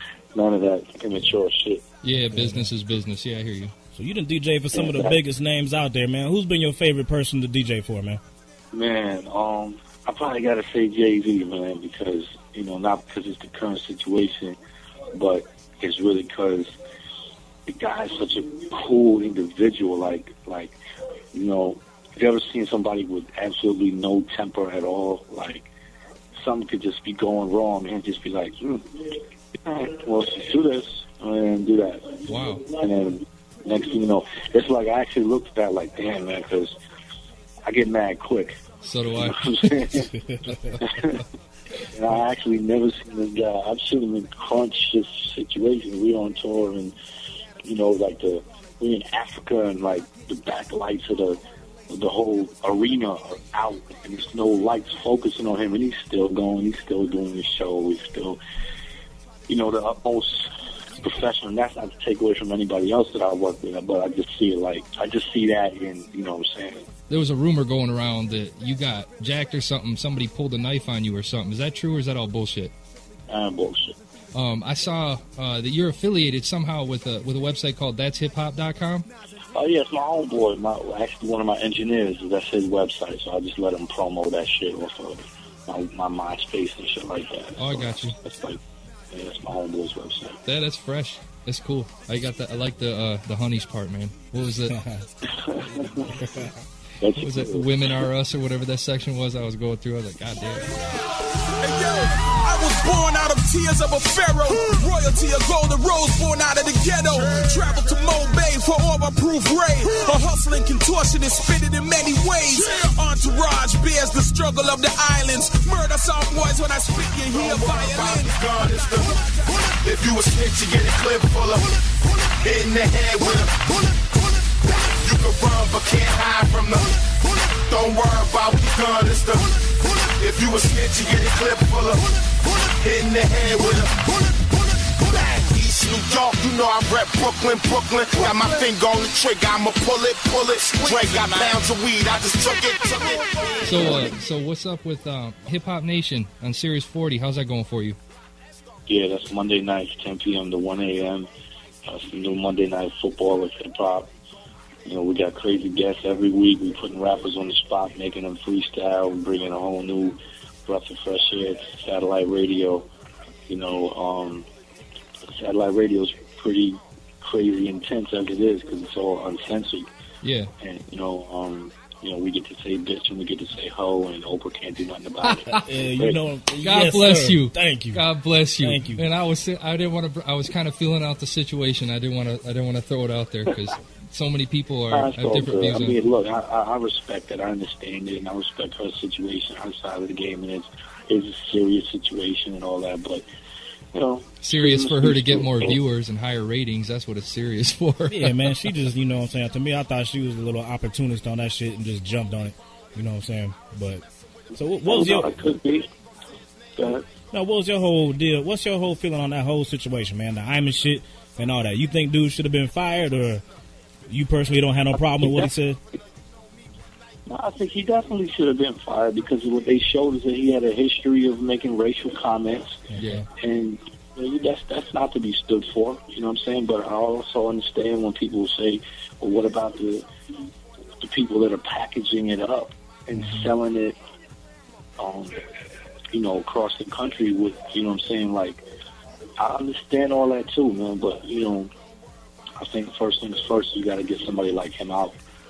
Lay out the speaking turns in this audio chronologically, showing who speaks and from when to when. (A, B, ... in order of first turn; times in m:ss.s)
0:00.3-0:01.8 A
0:02.0-0:03.7 B
0:02.3-0:02.7 C
0:03.9-0:08.2 C
0:04.7-0:05.2 A
0:08.7-0:14.6 A
0:15.1-0:16.7 A
0:17.7-0:20.8 A
0:21.3-0:25.7 A
0:26.3-0:29.1 A
0:29.6-0:36.8 A
0:32.3-0:32.7 B
0:37.7-0:38.6 A
0:38.8-0:39.7 B
0:39.2-0:40.1 A
0:40.2-0:40.6 C
0:40.7-0:41.2 B
0:40.8-0:41.2 A
0:41.9-0:46.9 A
0:47.6-0:58.4 A
0:59.5-1:00.5 A
1:01.0-1:06.9 A
1:07.1-1:12.7 B
1:13.3-1:14.0 A
1:14.3-1:19.1 B
1:19.6-1:28.6 A
1:27.6-1:28.2 B
1:29.1-1:30.4 A
1:30.5-1:34.8 B
1:34.7-1:35.0 C
1:35.3-1:36.1 A
1:36.1-1:36.5 C
1:37.0-1:37.7 A
1:37.2-1:40.8 B
1:41.6-1:58.3 D
1:57.3-2:01.8 E
2:02.4-2:03.8 E
2:04.8-2:07.0 E
2:07.7-2:12.2 E
2:12.7-2:14.1 E
2:15.0-2:23.9 E
2:21.0-2:21.6 D
2:23.6-2:28.0 B
2:28.9-2:31.3 A
2:31.8-2:34.1 A
2:34.8-2:42.9 A
2:43.5-2:44.5 A
2:45.3-2:49.9 A
2:50.2-2:50.5 B
2:50.6-2:56.2 A
2:55.2-2:55.7 B
2:55.6-2:58.0 C
2:56.6-3:06.0 B
2:58.6-2:59.1 C
3:04.9-3:13.2 A
3:13.9-3:15.8 A
3:14.4-3:18.4 B
3:18.1-3:25.3 C
3:24.8-3:25.9 A
3:26.8-3:27.0 A
3:27.3-3:33.4 C
3:34.1-3:35.8 C
3:35.2-3:35.5 A
3:37.3-3:50.1 A
3:42.9-3:43.2 C
3:43.0-3:43.2 B
3:51.0-3:54.0 A
3:53.1-3:53.5 C
3:55.0-3:55.4 A
3:56.1-3:58.6 A
3:59.4-4:01.7 A
4:02.6-4:05.2 A